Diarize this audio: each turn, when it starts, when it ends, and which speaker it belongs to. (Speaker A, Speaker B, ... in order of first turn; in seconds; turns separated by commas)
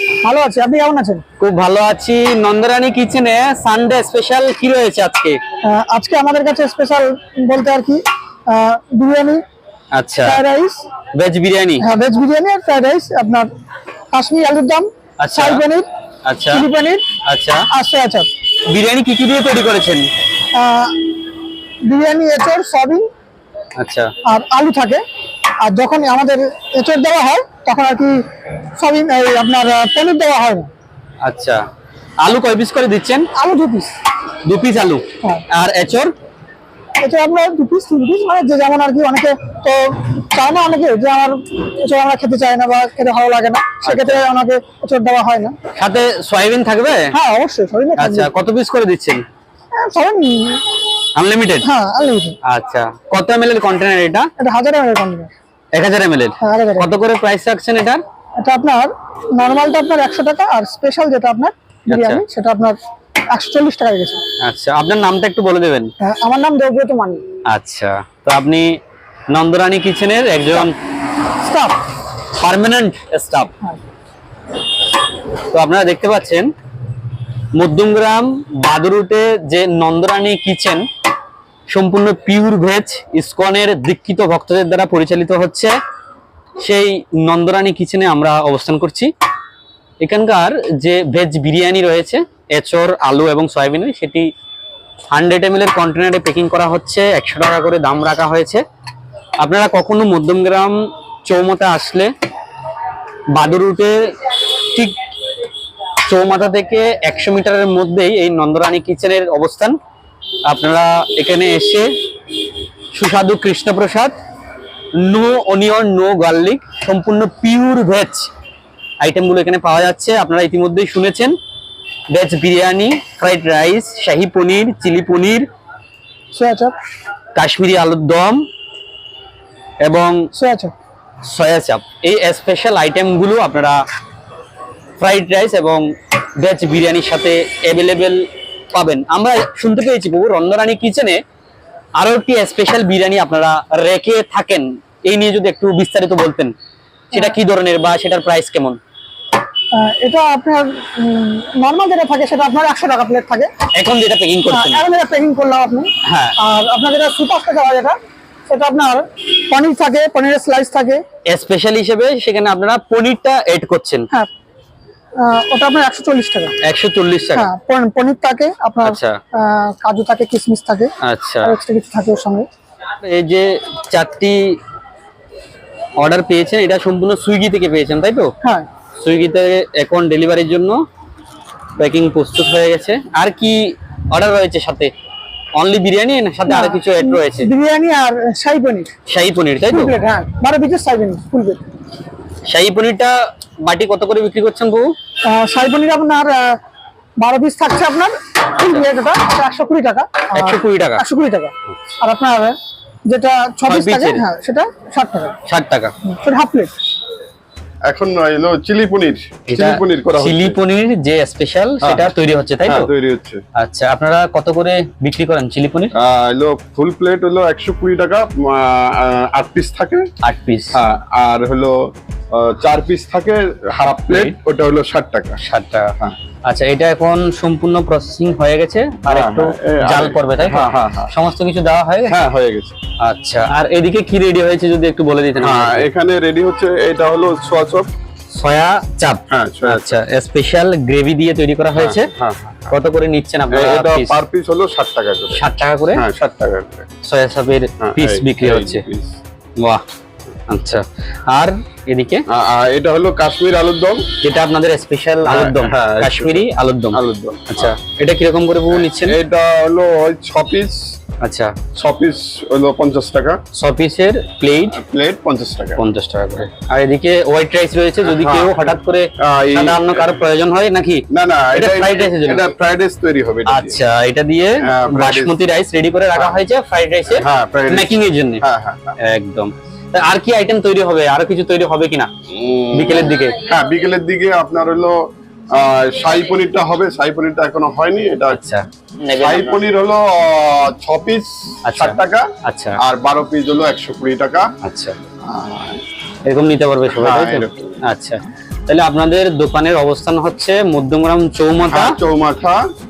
Speaker A: 0.2-1.2, Speaker B: 1.4-5.4, Speaker A: 5.6-9.4, Speaker B: 9.9-10.4, Speaker A: 10.2-10.8, Speaker B: 11.2-11.8, Speaker A: 11.8-13.5, Speaker A: 14.1-15.9, Speaker B: 15.2-15.6, Speaker B: 16.2-16.6, Speaker A: 16.5-17.0, Speaker B: 17.2-17.7, Speaker A: 17.7-18.3, Speaker B: 18.7-20.1, Speaker A: 20.5-21.1, Speaker A: 21.9-23.1, Speaker B: 23.8-24.1, Speaker A: 24.3-25.0, Speaker A: 25.6-28.2, Speaker A: 28.8-30.7, Speaker B: 31.2-31.6, Speaker B: 32.2-33.3, Speaker A: 33.3-33.9, Speaker B: 34.4-36.1, Speaker A: 37.0-45.5, Speaker B: 43.8-44.2, Speaker B: 45.8-47.1, Speaker A: 47.1-48.3, Speaker B: 48.0-49.2, Speaker A: 49.8-50.6, Speaker B: 51.1-51.7, Speaker A: 51.6-52.4, Speaker B: 52.4-54.3, Speaker A: 54.4-55.3, Speaker B: 55.7-58.0, Speaker A: 56.4-56.9, Speaker A: 58.4-62.8, Speaker B: 61.9-62.2, Speaker A: 63.3-64.2, Speaker B: 64.4-65.9, Speaker A: 66.0-67.2, Speaker B: 67.5-68.8, Speaker B: 69.3-70.7, Speaker A: 71.4-71.8, Speaker B: 72.3-73.5, Speaker B: 75.5-76.5, Speaker B: 77.5-80.8, Speaker B: 81.7-85.7, Speaker B: 86.6-89.1, Speaker B: 90.0-94.3, Speaker B: 95.1-98.6, Speaker B: 99.4-100.7, Speaker B: 101.2-102.1, Speaker B: 103.3-105.0, Speaker B: 106.0-109.8, Speaker B: 110.5-111.9, Speaker B: 112.9-114.1, Speaker B: 115.0-118.3, Speaker B: 119.0-121.3, Speaker B: 122.1-125.4, Speaker A: 126.3-126.8, Speaker B: 127.3-128.4, Speaker B: 129.8-130.2, Speaker A: 130.3-130.7, Speaker B: 131.2-133.8, Speaker B: 135.0-135.8, Speaker B: 136.4-141.2, Speaker B: 142.0-146.5, Speaker B: 147.1-148.8, Speaker A: 149.7-153.5, Speaker B: 153.7-154.8, Speaker A: 154.5-158.0, Speaker B: 156.0-156.3, Speaker A: 158.5-161.0, Speaker B: 161.3-164.1, Speaker A: 165.2-166.5, Speaker B: 166.6-167.5, Speaker A: 167.3-170.9, Speaker B: 168.8-169.1, Speaker B: 171.0-171.5, Speaker A: 171.4-172.5, Speaker B: 173.0-174.6, Speaker B: 176.0-178.3, Speaker B: 179.0-180.8, Speaker B: 181.8-184.9, Speaker B: 185.6-187.5, Speaker A: 186.5-188.9, Speaker B: 189.1-189.9, Speaker A: 189.7-191.6, Speaker B: 192.4-194.9, Speaker A: 195.3-196.6, Speaker A: 197.2-202.5, Speaker B: 198.6-198.8, Speaker B: 200.3-201.0, Speaker A: 203.1-205.3, Speaker B: 203.7-204.2, Speaker B: 205.4-205.9, Speaker A: 206.0-206.7, Speaker C: 207.8-210.6, Speaker B: 209.5-212.9, Speaker C: 211.8-212.1, Speaker C: 212.6-213.4, Speaker B: 213.6-215.9, Speaker C: 215.9-220.1, Speaker B: 220.2-220.8, Speaker C: 220.7-225.4, Speaker B: 224.1-224.3, Speaker B: 225.4-232.2, Speaker C: 229.1-231.1, Speaker C: 232.1-232.8, Speaker B: 233.0-235.9, Speaker C: 235.4-237.9, Speaker B: 238.3-242.1, Speaker C: 239.3-240.0, Speaker C: 241.8-242.7, Speaker B: 242.7-244.2, Speaker C: 243.5-246.9, Speaker B: 245.3-246.0, Speaker B: 247.0-248.8, Speaker C: 247.8-249.2, Speaker B: 249.6-249.8, Speaker B: 250.5-252.2, Speaker C: 252.3-254.0, Speaker B: 254.2-259.2, Speaker C: 255.2-257.7, Speaker C: 258.7-260.9, Speaker B: 261.2-261.6, Speaker C: 261.7-263.4, Speaker B: 263.5-264.8, Speaker C: 264.7-265.8, Speaker B: 265.8-272.5, Speaker C: 268.0-270.1, Speaker C: 271.1-273.8, Speaker B: 273.4-278.4, Speaker C: 274.6-275.4, Speaker C: 277.1-279.0, Speaker B: 279.0-282.1, Speaker C: 282.3-288.4, Speaker B: 282.7-283.4, Speaker B: 288.3-289.6, Speaker C: 289.1-294.5, Speaker B: 291.6-292.8, Speaker B: 294.6-294.9, Speaker C: 295.2-295.8, Speaker B: 296.2-302.0, Speaker C: 296.9-297.7, Speaker C: 301.7-302.6